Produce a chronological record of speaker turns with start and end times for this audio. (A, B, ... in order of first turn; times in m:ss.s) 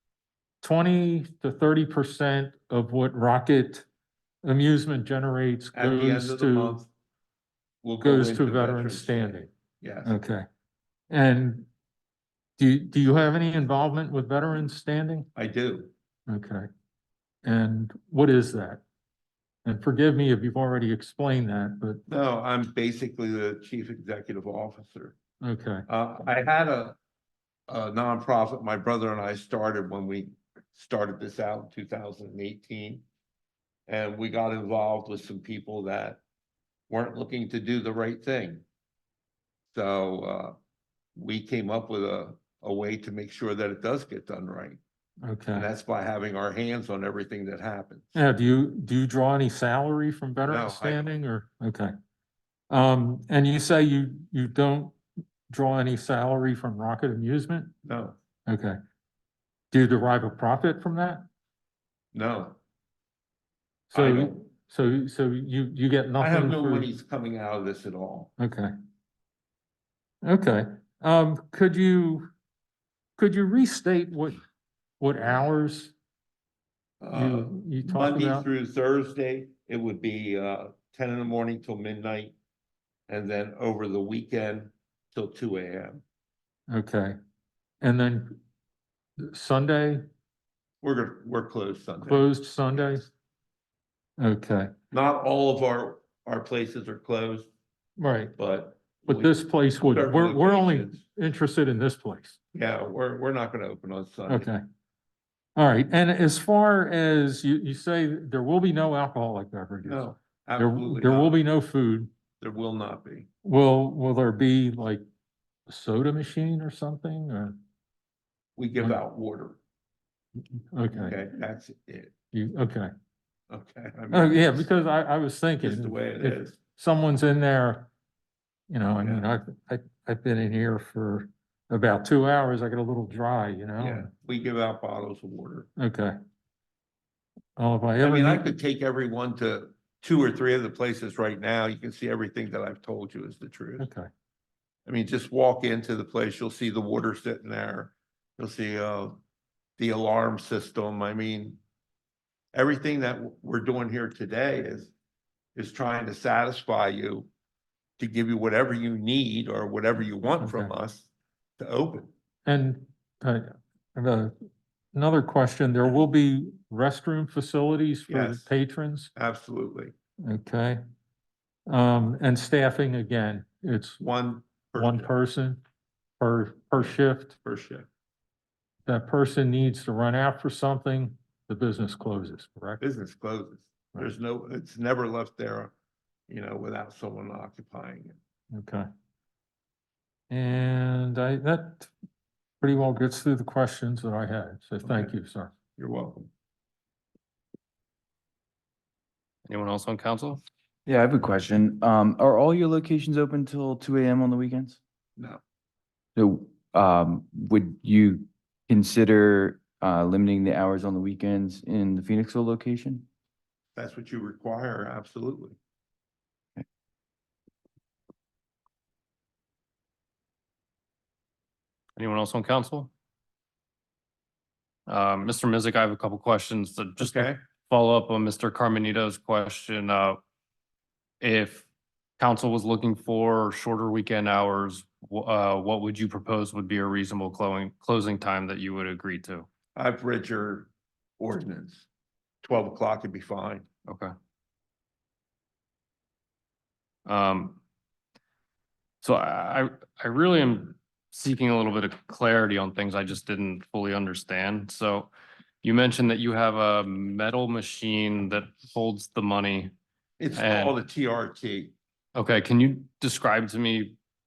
0:00.6-0:03.8 A
0:04.4-0:06.8 A
0:05.7-0:06.9 B
0:07.8-0:10.2 B
0:08.0-0:09.5 A
0:10.0-0:10.4 A
0:11.1-0:11.7 A
0:12.6-0:15.3 A
0:15.3-0:15.9 B
0:16.3-0:16.7 A
0:17.4-0:18.8 A
0:19.6-0:22.0 A
0:22.1-0:25.2 B
0:25.4-0:25.8 A
0:25.9-0:27.0 B
0:27.7-0:33.0 B
0:33.9-0:36.2 B
0:36.9-0:38.6 B
0:39.7-0:40.6 B
0:41.2-0:44.8 B
0:45.2-0:45.7 A
0:45.5-0:48.2 B
0:48.1-0:51.9 A
0:50.4-0:51.1 B
0:52.7-0:55.0 A
0:55.5-0:57.7 A
0:57.8-0:58.2 B
0:58.5-0:58.8 A
0:59.7-1:01.2 A
1:02.1-1:02.6 B
1:03.9-1:06.9 A
1:03.9-1:04.3 B
1:06.2-1:08.3 B
1:08.4-1:08.7 A
1:10.2-1:12.3 A
1:13.2-1:14.4 A
1:15.0-1:15.9 A
1:17.0-1:22.3 B
1:17.1-1:18.5 A
1:23.1-1:26.0 B
1:26.7-1:27.2 A
1:27.8-1:28.4 A
1:29.3-1:30.0 A
1:30.8-1:33.1 B
1:32.0-1:33.1 A
1:34.2-1:34.7 A
1:34.9-1:37.5 B
1:38.0-1:38.3 A
1:38.4-1:41.0 B
1:39.0-1:42.4 A
1:42.5-1:44.5 B
1:44.3-1:44.6 A
1:45.6-1:52.1 A
1:49.8-1:51.4 B
1:52.4-1:53.3 B
1:53.4-1:55.0 A
1:55.7-1:57.6 A
1:58.6-1:59.6 B
2:00.7-2:01.2 A
2:00.9-2:02.1 B
2:02.3-2:02.9 A
2:03.5-2:04.7 B
2:04.1-2:07.9 A
2:05.6-2:06.6 B
2:08.7-2:14.1 A
2:09.0-2:09.3 B
2:13.8-2:15.7 B
2:15.8-2:16.1 A
2:17.6-2:18.5 A
2:18.0-2:23.9 B
2:23.8-2:24.1 A
2:24.8-2:29.2 B
2:29.8-2:31.6 B
2:32.5-2:34.9 B
2:35.5-2:37.3 B
2:38.0-2:41.1 B
2:40.4-2:40.7 A
2:41.6-2:42.1 B
2:42.4-2:44.3 A
2:44.9-2:49.1 A
2:48.1-2:48.5 B
2:49.1-2:49.9 B
2:50.2-2:50.8 A
2:51.7-2:54.0 A
2:54.0-2:55.1 B
2:54.8-2:55.6 A
2:56.2-2:57.4 A
2:56.8-2:57.9 B
2:58.9-3:02.8 A
3:02.8-3:05.7 B
3:06.3-3:08.2 B
3:08.5-3:08.8 A
3:10.3-3:11.9 A
3:12.6-3:15.5 A
3:14.8-3:15.1 B
3:15.8-3:16.3 B
3:19.4-3:20.4 C
3:20.8-3:24.8 D
3:26.2-3:33.1 D
3:33.8-3:35.6 B
3:42.0-3:42.9 C
3:44.9-3:50.2 C
3:47.0-3:47.4 B
3:51.2-3:51.6 C
3:52.2-3:59.5 C
3:59.7-4:01.8 B
4:02.4-4:03.7 B
4:07.0-4:07.6 C
4:09.0-4:15.1 C
4:15.6-4:19.7 C
4:20.2-4:21.7 B
4:20.3-4:20.7 C
4:22.1-4:24.0 C